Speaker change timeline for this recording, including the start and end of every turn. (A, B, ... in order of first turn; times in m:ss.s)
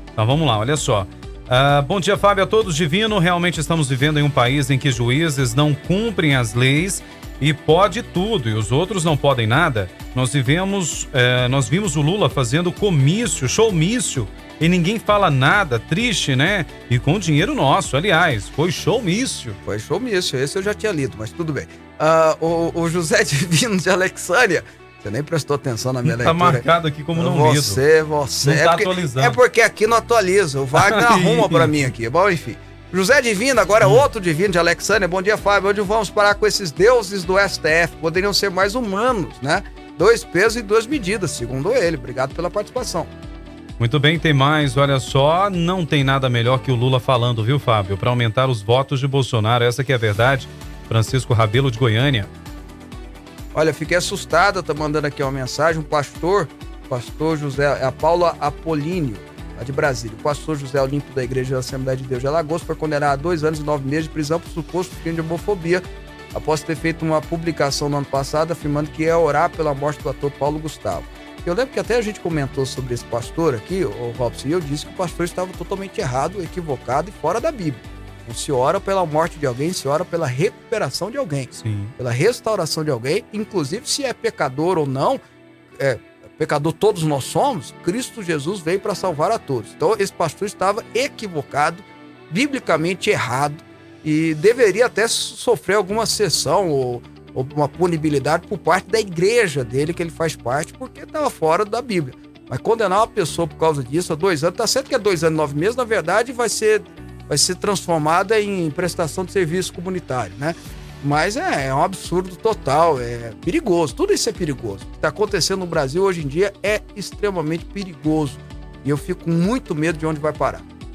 0:00.2-0:19.6 A
0:19.6-0:43.1 B
0:26.0-0:27.8 A
0:28.4-0:29.4 A
0:30.8-0:31.7 A
0:43.8-0:52.3 A
0:53.5-1:25.2 B
1:21.6-1:21.9 A
1:25.8-2:00.6 B